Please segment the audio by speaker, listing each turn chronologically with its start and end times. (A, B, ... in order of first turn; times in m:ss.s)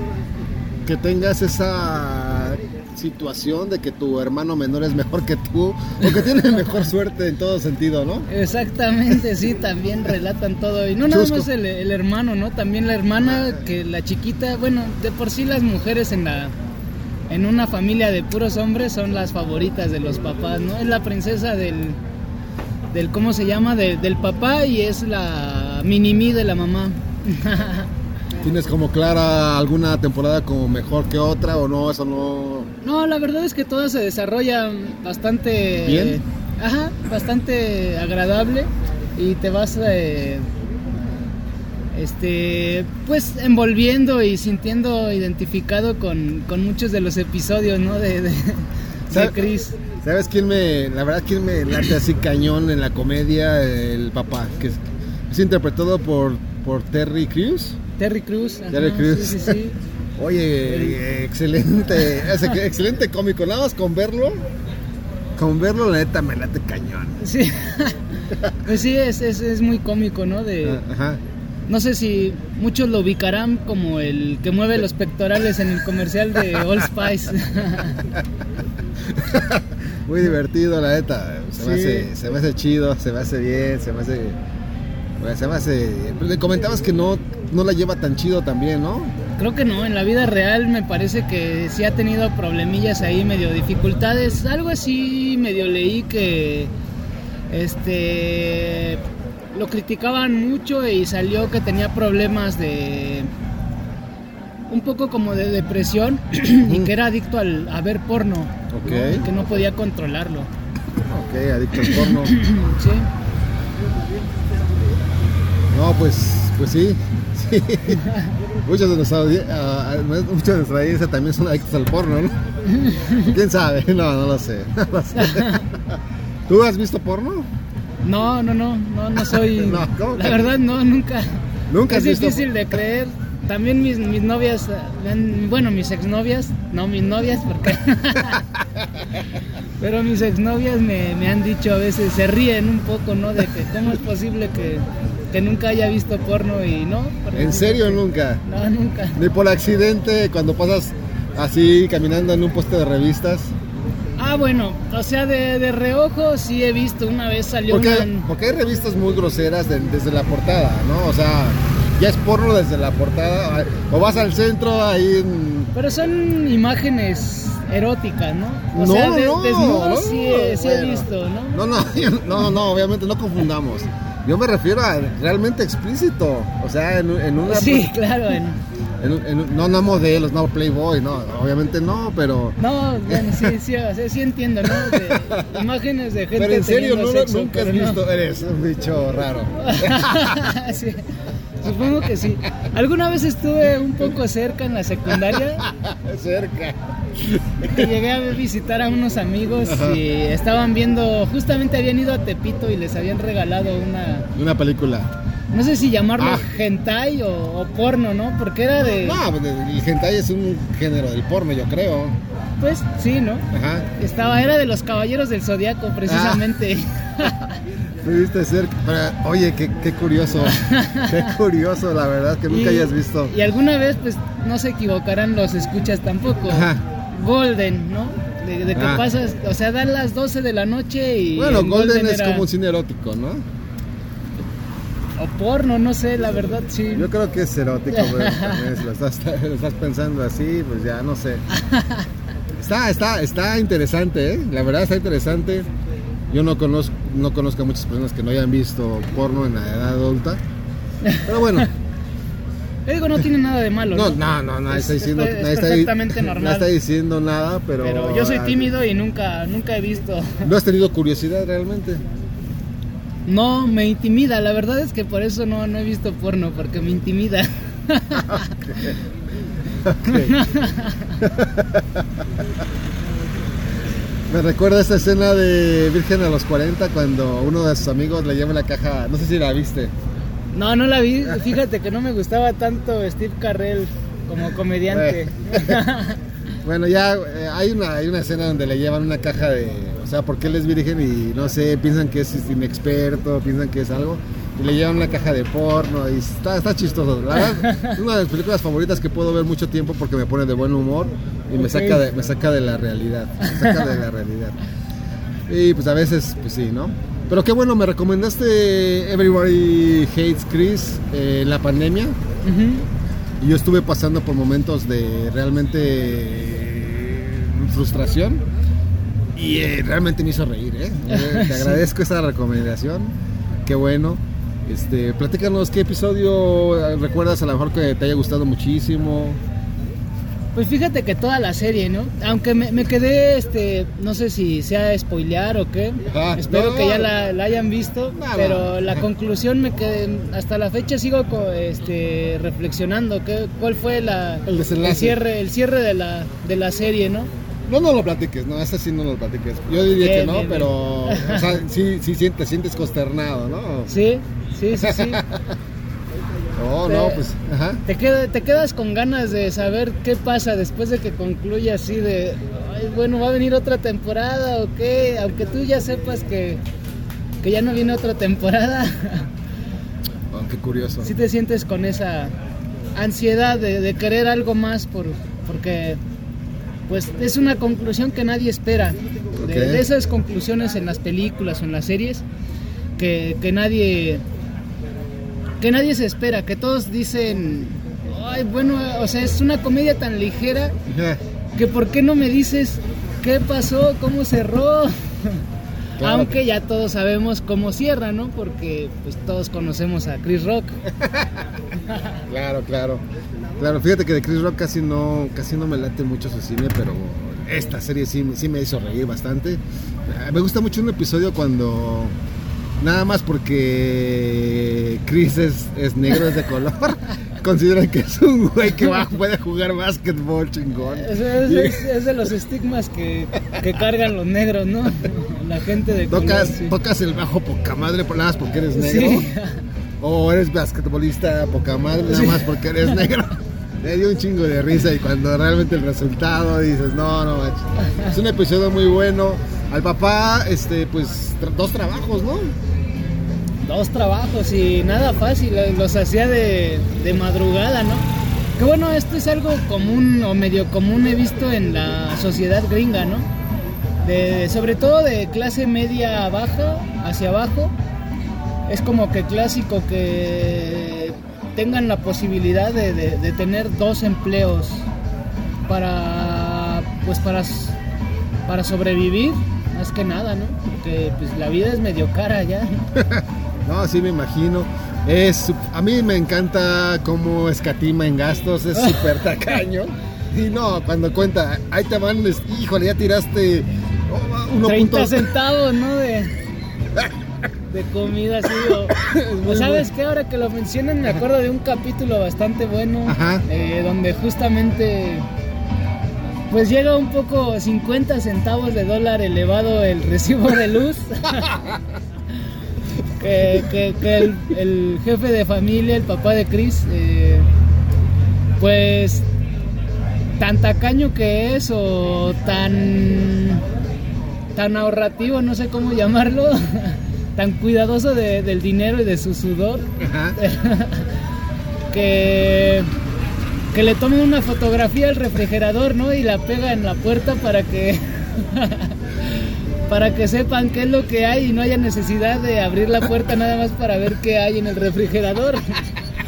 0:00.8-0:08.3 A
0:08.3-0:16.5 B
0:11.1-0:11.5 A
0:13.2-0:13.6 A
0:17.3-0:22.0 B
0:22.9-0:27.9 B
0:28.4-0:32.7 A
0:32.8-0:40.5 B
0:35.8-0:36.2 A
0:41.9-0:49.8 B
0:50.0-0:57.8 A
0:58.0-0:59.8 B
0:58.7-0:59.6 A
1:00.2-1:04.4 A
1:00.7-1:01.0 B
1:02.2-1:02.6 B
1:05.4-1:07.2 A
1:07.2-1:10.8 B
1:10.6-1:11.2 A
1:11.7-1:18.0 B
1:16.6-1:16.9 A
1:19.0-1:24.4 A
1:21.6-1:22.1 B
1:25.2-1:29.2 A
1:29.4-1:36.7 B
1:37.5-1:39.0 B
1:39.5-1:43.3 B
1:44.7-1:50.5 B
1:46.6-1:46.9 A
1:48.7-1:49.3 A
1:51.0-1:52.4 A
1:51.7-1:53.1 B
1:55.7-1:58.0 A
1:57.9-1:58.3 B
1:58.6-2:02.4 A
2:02.7-2:03.4 B
2:03.2-2:07.5 A
2:05.2-2:05.7 B
2:08.0-2:11.4 B
2:09.3-2:10.6 A
2:11.7-2:12.5 A
2:11.9-2:18.4 B
2:19.8-2:29.2 B
2:27.3-2:28.4 A
2:29.2-2:33.5 A
2:34.2-2:38.3 B
2:37.7-2:45.7 A
2:45.7-2:51.6 B
2:48.7-2:57.9 A
2:57.4-2:58.6 B
2:59.0-3:03.5 A
3:02.6-3:08.0 B
3:04.7-3:05.6 A
3:06.4-3:10.5 A
3:09.6-3:11.0 B
3:11.6-3:15.7 B
3:15.6-3:17.9 A
3:17.6-3:24.3 B
3:19.7-3:20.0 A
3:24.3-3:25.1 A
3:25.5-3:29.2 B
3:26.2-3:26.5 A
3:28.9-3:32.2 A
3:32.6-3:37.6 B
3:33.5-3:33.9 A
3:36.1-3:36.5 A
3:38.0-3:43.3 A
3:40.5-3:41.3 B
3:42.5-3:52.5 B
3:46.5-3:46.8 A
3:48.8-3:49.1 A
3:51.4-3:53.4 A
3:55.2-3:57.1 B
3:56.9-4:01.4 A
3:57.9-3:58.7 B
4:01.6-4:02.0 B
4:02.6-4:05.7 A
4:06.3-4:10.4 A
4:11.2-4:11.7 A
4:12.9-4:16.7 B
4:13.9-4:18.7 A
4:17.8-4:20.5 B
4:20.4-4:22.0 A
4:23.3-4:28.9 B
4:28.2-4:29.0 A
4:29.7-4:30.4 A
4:30.0-4:31.3 B
4:31.2-4:32.1 A
4:34.3-4:39.9 A
4:40.5-4:46.2 B
4:44.9-4:45.8 A
4:46.6-5:04.6 A
4:57.5-4:58.0 B
5:01.6-5:02.0 B
5:03.4-5:03.9 B
5:05.5-5:12.2 A
5:12.4-5:12.9 B
5:13.4-5:18.4 A
5:19.4-5:29.4 A
5:21.1-5:21.8 B
5:30.6-5:47.3 B
5:36.1-5:37.1 A
5:38.2-5:39.1 A
5:44.5-5:45.2 A
5:47.7-5:53.9 A
5:50.0-5:51.6 B
5:53.9-5:55.2 B
5:54.7-5:55.4 A
5:56.6-5:57.8 A
5:56.8-5:57.2 B
5:57.9-6:06.6 B
6:07.4-6:09.3 B
6:10.3-6:11.1 A
6:11.0-6:12.4 B
6:13.0-6:16.0 B
6:16.9-6:22.2 B
6:19.4-6:19.8 A
6:23.0-6:24.2 B
6:25.6-6:30.8 B
6:30.9-6:31.2 A
6:31.6-6:35.4 B
6:36.0-6:36.4 A
6:36.0-6:40.8 B
6:41.0-6:41.3 A
6:42.3-6:43.0 A
6:43.6-6:52.2 A
6:52.8-7:01.8 A
7:00.9-7:06.8 B
7:06.1-7:09.3 A
7:08.7-7:09.6 B
7:10.0-7:22.6 A
7:12.1-7:12.5 B
7:23.6-7:33.3 B
7:34.0-7:37.7 B
7:38.7-7:44.9 B
7:45.7-7:47.8 B
7:48.5-7:52.9 B
7:53.0-8:05.3 A
7:58.7-7:59.3 B
8:04.5-8:06.4 B
8:07.7-8:15.3 B
8:08.7-8:09.9 A
8:13.1-8:13.4 A
8:16.5-8:21.6 B
8:23.2-8:27.5 B
8:28.6-8:29.3 B
8:30.4-8:33.6 B
8:34.6-8:41.1 B
8:40.0-8:40.4 A
8:41.9-8:42.9 B
8:43.7-8:55.8 B